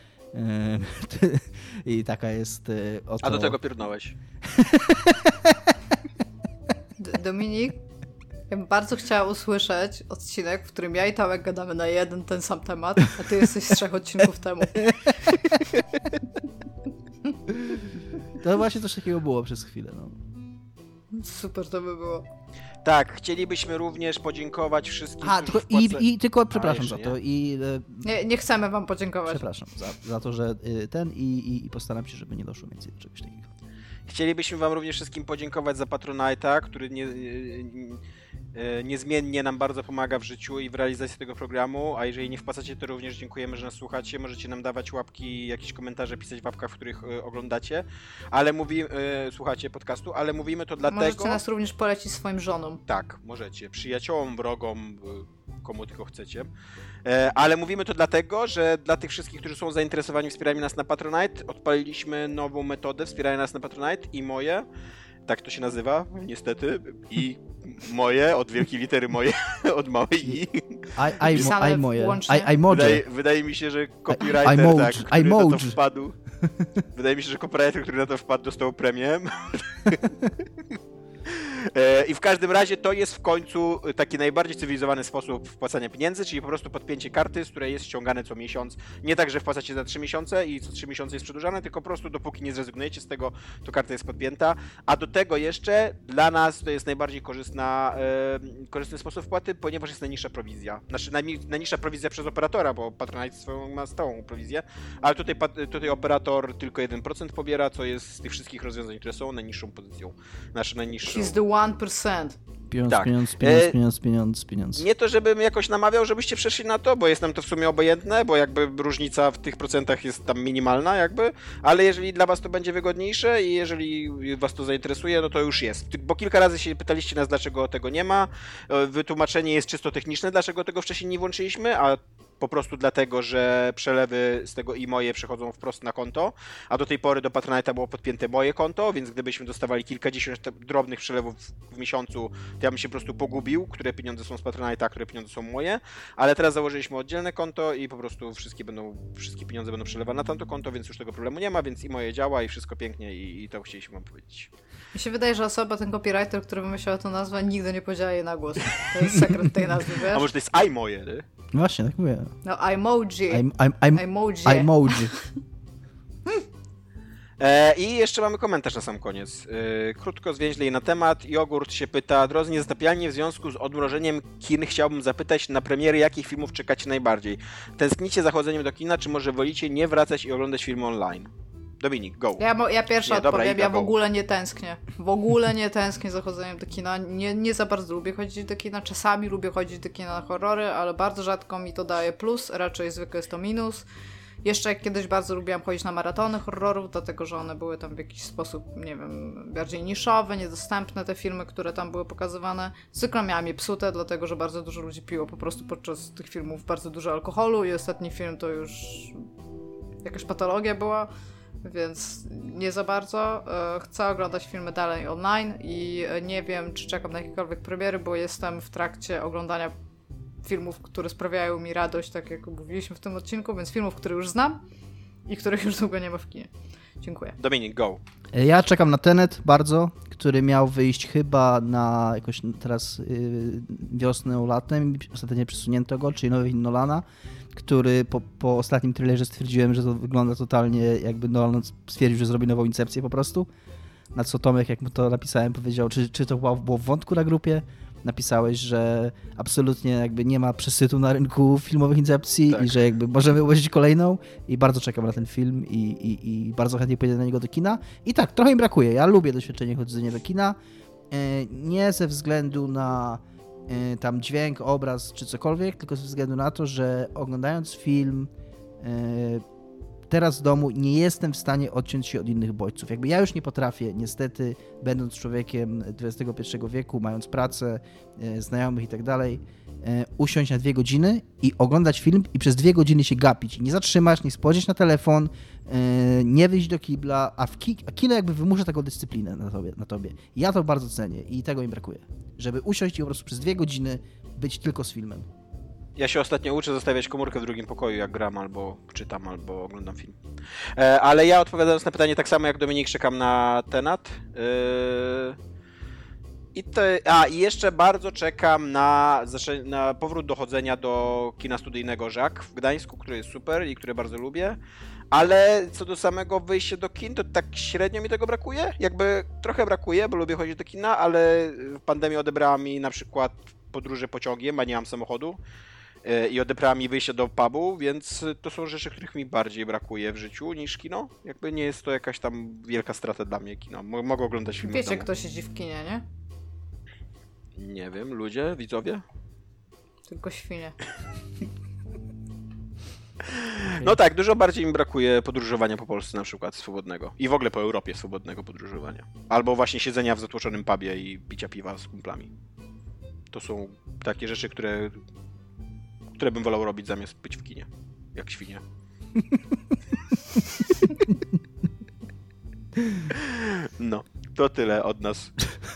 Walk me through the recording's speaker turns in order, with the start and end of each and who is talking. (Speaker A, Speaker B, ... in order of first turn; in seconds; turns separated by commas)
Speaker A: 0.3-3.6, Speaker B: 3.2-4.2, Speaker A: 4.4-5.8, Speaker C: 7.0-7.8, Speaker C: 8.5-14.9, Speaker A: 14.8-15.8, Speaker A: 17.6-20.2, Speaker C: 21.1-22.3, Speaker B: 22.8-27.1, Speaker A: 25.2-28.1, Speaker C: 28.0-29.4, Speaker A: 29.3-33.5, Speaker B: 34.1-38.0, Speaker B: 38.5-51.4, Speaker C: 50.9-52.8, Speaker B: 52.9-56.5, Speaker B: 57.0-64.7, Speaker B: 65.3-71.5, Speaker A: 71.0-73.0, Speaker C: 71.3-72.5, Speaker B: 72.7-76.1, Speaker A: 74.1-75.8, Speaker B: 77.0-80.2, Speaker B: 81.3-111.4, Speaker C: 111.0-112.4, Speaker A: 112.7-114.8, Speaker B: 112.9-113.8, Speaker B: 114.8-154.5, Speaker C: 154.9-160.3, Speaker A: 159.1-159.7, Speaker B: 160.1-161.2, Speaker A: 161.5-162.3, Speaker C: 162.4-165.2, Speaker A: 163.3-165.1, Speaker B: 167.4-182.4, Speaker C: 182.4-193.8, Speaker B: 183.1-183.9, Speaker C: 194.4-209.2, Speaker C: 210.0-211.1, Speaker C: 211.6-219.7, Speaker C: 220.4-224.6, Speaker C: 225.3-227.4, Speaker B: 227.4-228.0, Speaker A: 228.3-243.5, Speaker A: 244.1-260.6, Speaker B: 252.5-252.8, Speaker A: 261.1-269.4, Speaker A: 270.1-295.3, Speaker B: 296.0-300.2, Speaker B: 300.8-305.4, Speaker B: 306.6-314.6, Speaker B: 315.1-325.4, Speaker B: 326.1-335.1, Speaker C: 334.6-336.1, Speaker B: 337.6-339.0, Speaker C: 340.1-340.8, Speaker B: 343.3-352.3, Speaker B: 353.3-355.0, Speaker B: 356.1-358.6, Speaker A: 362.8-363.1, Speaker B: 363.1-365.3